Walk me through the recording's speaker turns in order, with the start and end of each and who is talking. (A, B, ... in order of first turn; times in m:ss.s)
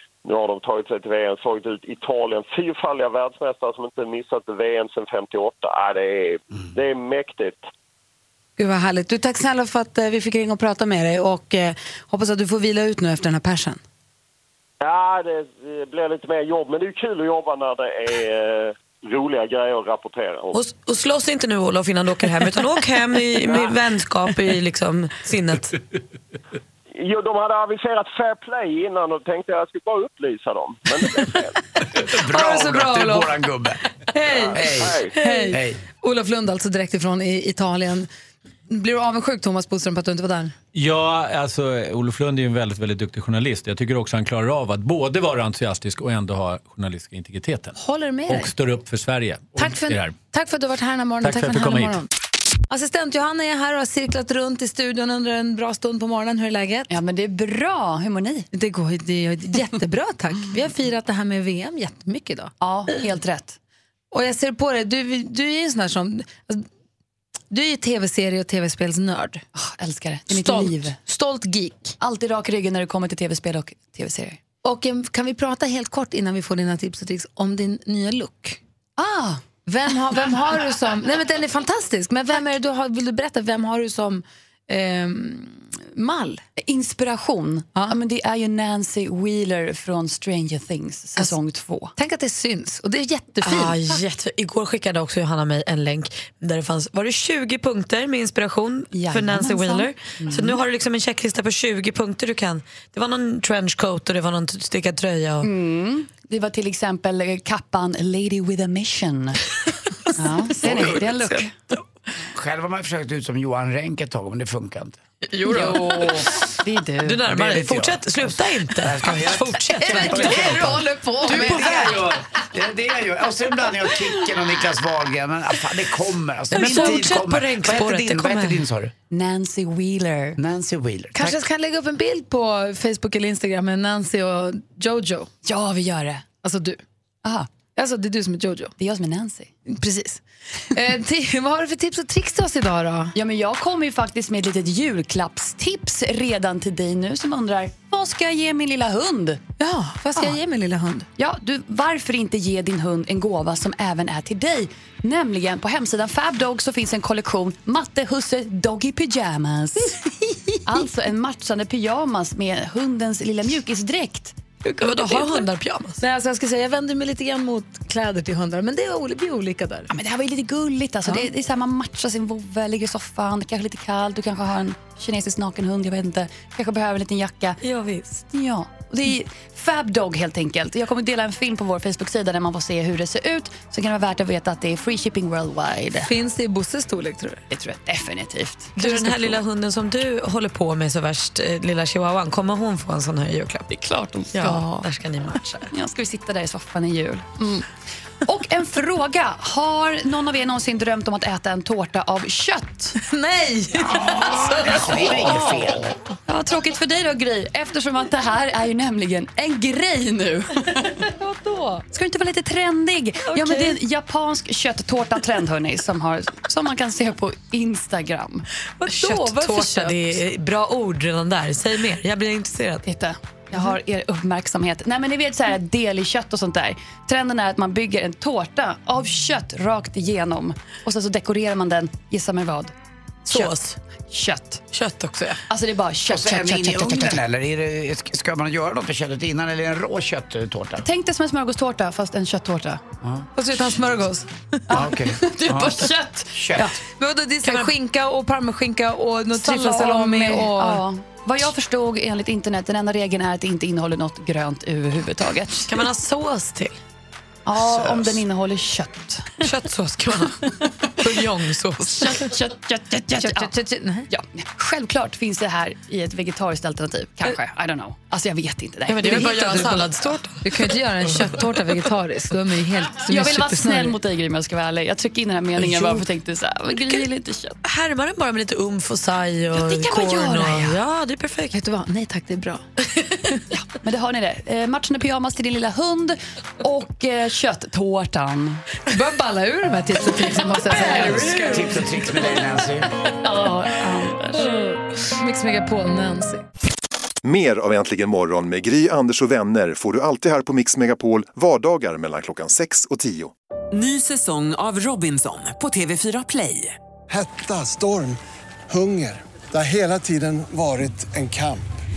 0:00.2-0:07.7 A
0:08.6-0:13.8 B
0:14.8-0:20.6 A
0:20.5-0:25.8 C
0:27.0-0:31.6 A
0:32.1-0:33.8 D
0:32.3-0:33.3 B
0:34.1-0:34.6 B
0:34.4-0:35.1 A
0:34.5-0:35.8 D
0:35.1-0:38.1 B
0:38.7-0:40.5 B
0:40.7-0:47.8 E
0:47.8-0:48.5 B
0:48.3-0:50.2 E
0:49.6-0:52.1 B
0:51.2-0:52.0 E
0:52.7-0:56.9 B
0:56.9-0:58.5 F
0:58.5-1:02.5 B
1:02.6-1:03.6 F
1:04.1-1:06.7 B
1:07.5-1:09.4 B
1:09.6-1:11.0 F
1:10.3-1:11.9 B
1:12.0-1:14.4 F
1:14.6-1:18.6 B
1:19.0-1:19.4 F
1:19.7-1:26.4 B
1:26.6-1:31.9 F
1:32.0-1:34.0 B
1:33.4-1:45.5 C
1:38.9-1:40.6 F
1:45.4-1:49.4 F
1:50.1-1:51.5 C
1:50.2-1:51.5 F
1:52.3-1:55.0 D
1:55.3-1:56.2 C
1:55.5-1:57.2 F
1:57.0-2:00.7 C
1:57.3-2:08.9 D
1:59.8-2:02.0 B
2:01.3-2:02.1 C
2:06.5-2:08.7 C
2:09.1-2:10.4 F
2:10.4-2:11.4 D
2:11.2-2:15.3 B
2:15.4-2:16.3 F
2:16.4-2:16.8 B
2:17.2-2:17.5 F
2:17.8-2:18.7 B
2:18.8-2:19.7 F
2:19.7-2:23.1 B
2:23.1-2:29.4 F
2:29.6-2:31.1 B
2:31.2-2:39.9 F
2:39.8-2:40.6 B
2:40.7-2:45.4 F
2:44.8-2:46.0 C
2:46.0-2:49.9 B
2:49.9-2:57.6 F
2:57.6-2:58.2 C
2:58.2-3:06.1 F
3:06.0-3:07.4 B
3:07.5-3:09.4 F
3:08.8-3:13.8 C
3:13.7-3:14.7 F
3:14.3-3:15.7 C
3:15.7-3:17.7 F
3:18.2-3:23.0 F
3:23.0-3:25.0 B
3:23.9-3:25.9 D
3:25.0-3:25.6 F
3:26.3-3:38.5 F
3:38.8-3:40.2 B
3:38.9-3:42.8 C
3:42.8-3:52.7 F
3:53.3-3:53.5 F
3:53.3-3:53.8 C
3:54.1-3:54.6 F
3:54.7-3:55.4 C
3:55.5-3:57.2 F
3:56.1-4:00.9 D
4:00.8-4:02.8 F
4:03.4-4:04.8 B
4:04.7-4:06.8 F
4:04.7-4:06.7 D
4:06.9-4:10.8 B
4:07.4-4:07.7 C
4:09.3-4:15.7 F
4:15.7-4:16.8 C
4:17.5-4:19.4 F
4:19.4-4:22.3 C
4:22.0-4:23.5 F
4:23.2-4:24.1 B
4:24.1-4:29.9 F
4:28.9-4:30.4 C
4:29.0-4:29.8 B
4:30.4-4:34.0 B
4:33.1-4:37.6 F
4:37.6-4:41.5 C
4:39.5-4:40.8 F
4:41.5-4:42.6 B
4:43.5-4:48.6 F
4:48.9-4:51.7 B
4:50.4-4:51.8 C
4:50.8-4:51.1 F
4:51.4-4:52.9 D
4:53.2-4:54.5 F
4:54.4-4:56.4 B
4:57.2-5:03.3 G
5:03.7-5:06.8 H
5:07.1-5:08.2 I
5:08.7-5:11.7 I